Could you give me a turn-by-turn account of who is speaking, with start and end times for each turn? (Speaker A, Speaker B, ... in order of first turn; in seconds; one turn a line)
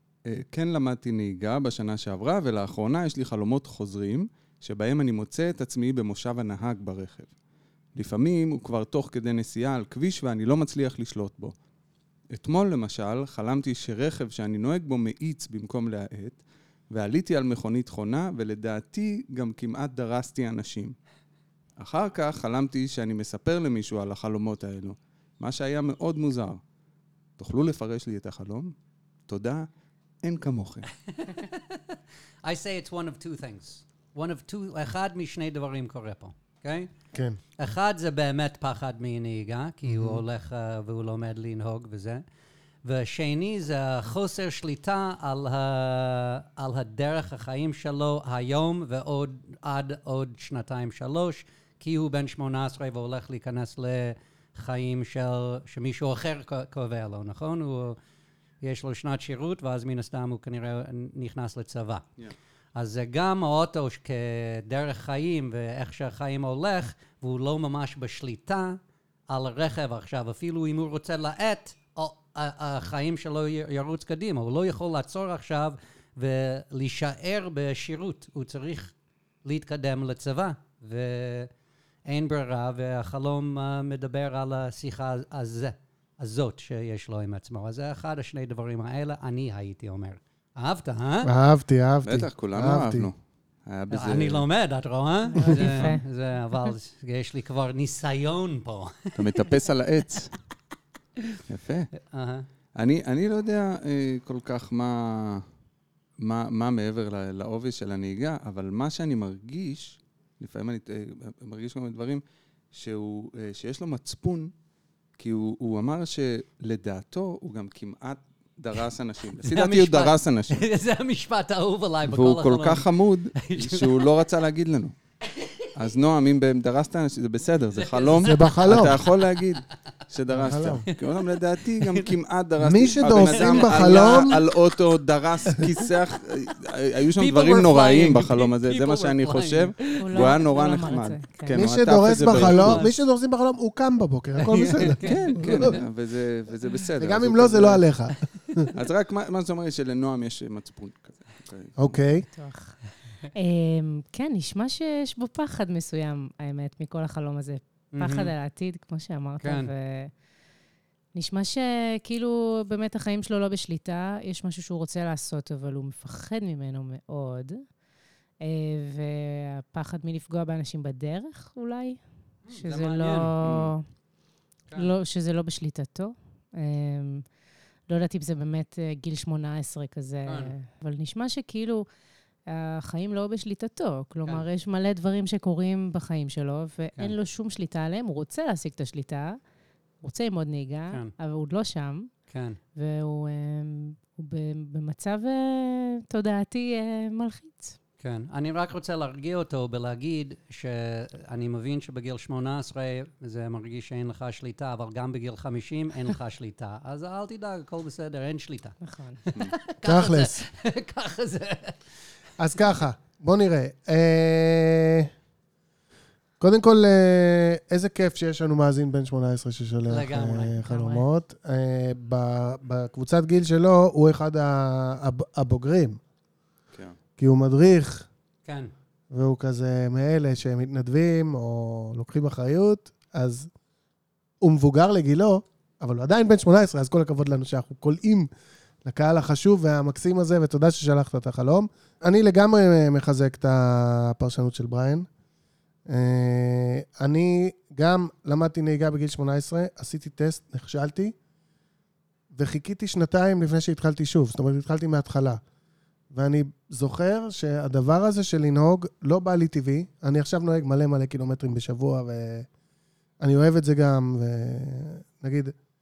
Speaker A: 0.2-7.3
Speaker A: 8.0-11.5
Speaker A: 12.3-16.4
Speaker A: 16.9-21.0
Speaker A: 21.8-26.6
Speaker A: 27.4-28.7
Speaker A: 29.3-29.7
Speaker A: 30.2-30.9
Speaker B: 31.1-36.9
Speaker C: 37.1-37.4
Speaker B: 37.6-42.2
Speaker B: 42.8-58.0
Speaker B: 58.6-62.0
Speaker B: 62.8-78.9
Speaker B: 79.4-81.5
Speaker B: 82.1-91.3
Speaker C: 91.2-93.1
Speaker A: 92.0-94.5
Speaker B: 93.9-99.2
Speaker D: 95.3-96.0
Speaker A: 95.7-95.9
Speaker A: 99.2-100.3
Speaker A: 101.5-101.9
Speaker B: 102.0-102.5
Speaker A: 102.8-105.5
Speaker A: 106.2-114.5
Speaker A: 115.2-120.6
Speaker B: 119.4-122.8
Speaker A: 122.1-125.0
Speaker B: 123.4-124.1
Speaker A: 125.8-142.8
Speaker B: 127.8-128.9
Speaker C: 128.2-129.0
Speaker C: 130.3-130.8
Speaker B: 130.9-132.1
Speaker C: 132.6-134.3
Speaker B: 133.0-134.6
Speaker B: 137.2-140.4
Speaker D: 140.0-141.6
Speaker C: 141.5-145.8
Speaker B: 142.3-143.0
Speaker B: 144.4-145.8
Speaker A: 145.0-147.8
Speaker C: 147.0-148.7
Speaker A: 148.7-152.0
Speaker C: 151.8-152.3
Speaker D: 152.3-152.8
Speaker D: 153.3-160.1
Speaker B: 157.9-158.3
Speaker B: 159.4-159.7
Speaker D: 161.1-167.6
Speaker D: 168.4-172.0
Speaker B: 172.4-173.4
Speaker D: 172.5-173.8
Speaker A: 173.4-173.7
Speaker D: 174.8-177.2
Speaker D: 177.9-181.9
Speaker B: 180.2-180.6
Speaker D: 182.5-189.4
Speaker D: 190.0-192.1
Speaker B: 192.3-192.6
Speaker D: 192.8-197.8
Speaker B: 198.0-211.8
Speaker D: 208.8-209.2
Speaker C: 209.8-210.4
Speaker C: 212.4-215.1
Speaker C: 216.4-226.0
Speaker B: 219.9-220.6
Speaker D: 220.7-221.0
Speaker C: 227.2-228.1
Speaker B: 228.4-228.7
Speaker C: 229.1-233.5
Speaker C: 234.4-238.3
Speaker C: 238.8-245.1
Speaker C: 245.9-251.2
Speaker C: 252.3-255.4
Speaker C: 256.1-262.5
Speaker C: 263.2-265.6